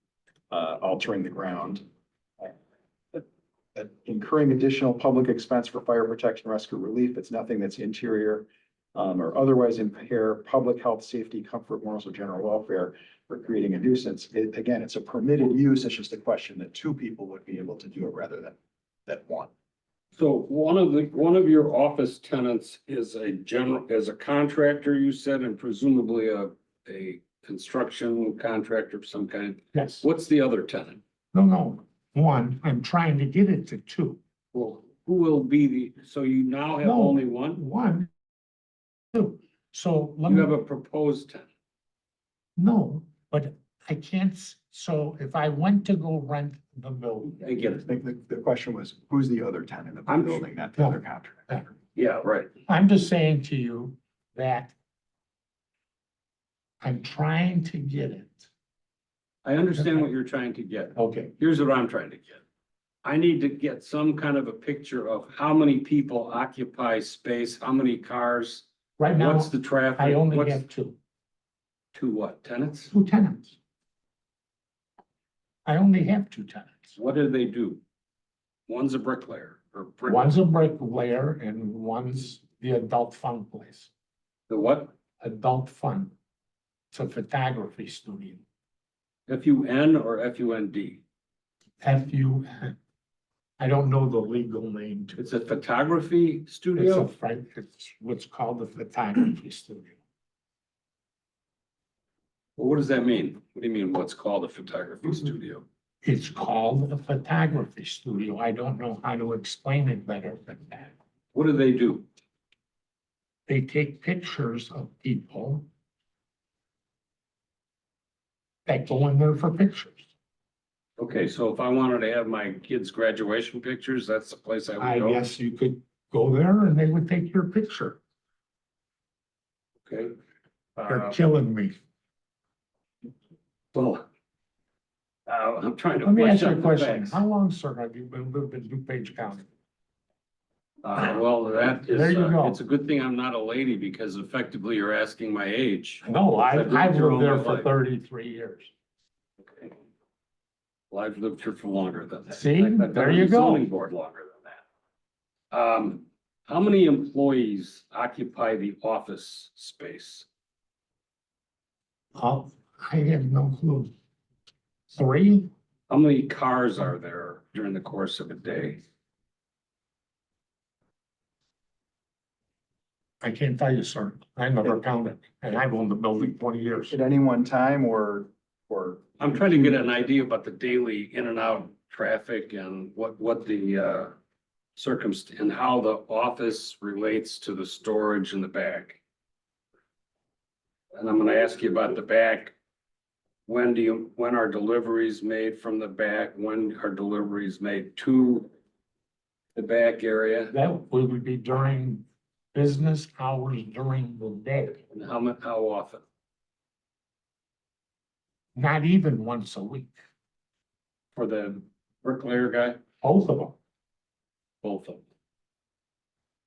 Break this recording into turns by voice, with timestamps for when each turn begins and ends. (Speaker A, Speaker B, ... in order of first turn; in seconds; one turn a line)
Speaker A: 0.5-1.8
Speaker A: 3.1-19.5
Speaker B: 20.1-31.0
Speaker C: 29.7-30.0
Speaker C: 31.3-34.2
Speaker B: 34.5-37.6
Speaker C: 36.8-38.1
Speaker C: 39.1-40.5
Speaker B: 40.2-41.5
Speaker C: 42.5-47.4
Speaker B: 47.4-47.8
Speaker A: 47.8-51.7
Speaker B: 50.1-50.5
Speaker C: 50.8-51.6
Speaker B: 51.9-52.5
Speaker C: 52.7-54.7
Speaker C: 56.8-58.5
Speaker B: 59.4-62.4
Speaker C: 59.8-60.1
Speaker C: 61.0-61.3
Speaker B: 63.0-70.7
Speaker C: 69.0-71.0
Speaker B: 71.9-72.9
Speaker C: 72.9-73.6
Speaker C: 75.6-77.0
Speaker B: 77.0-77.8
Speaker B: 78.7-80.3
Speaker C: 80.1-83.9
Speaker B: 84.5-84.9
Speaker C: 85.2-86.1
Speaker C: 86.9-88.4
Speaker B: 89.3-91.0
Speaker C: 91.8-92.7
Speaker C: 93.6-95.2
Speaker B: 95.2-97.1
Speaker C: 96.8-100.0
Speaker B: 102.6-105.6
Speaker C: 106.0-110.9
Speaker B: 111.3-112.1
Speaker C: 113.5-115.7
Speaker C: 118.7-120.1
Speaker B: 121.0-125.2
Speaker C: 124.8-128.0
Speaker B: 129.8-130.2
Speaker B: 130.8-131.2
Speaker C: 130.9-131.8
Speaker B: 133.7-134.1
Speaker B: 135.3-137.2
Speaker C: 136.0-139.4
Speaker B: 140.8-147.7
Speaker C: 141.8-142.6
Speaker C: 146.0-148.7
Speaker B: 149.5-149.8
Speaker B: 150.9-154.6
Speaker C: 152.3-153.7
Speaker B: 155.5-160.3
Speaker C: 162.2-163.9
Speaker C: 164.9-165.5
Speaker B: 165.9-168.8
Speaker C: 173.2-176.9
Speaker A: 176.9-179.8
Speaker B: 179.2-184.1
Speaker B: 184.8-189.0
Speaker B: 190.9-192.5
Speaker B: 193.5-198.5
Speaker B: 199.5-200.5
Speaker C: 200.5-204.8
Speaker B: 204.9-206.0
Speaker C: 208.5-209.9
Speaker B: 211.1-212.8
Speaker C: 213.0-213.6
Speaker B: 214.6-215.0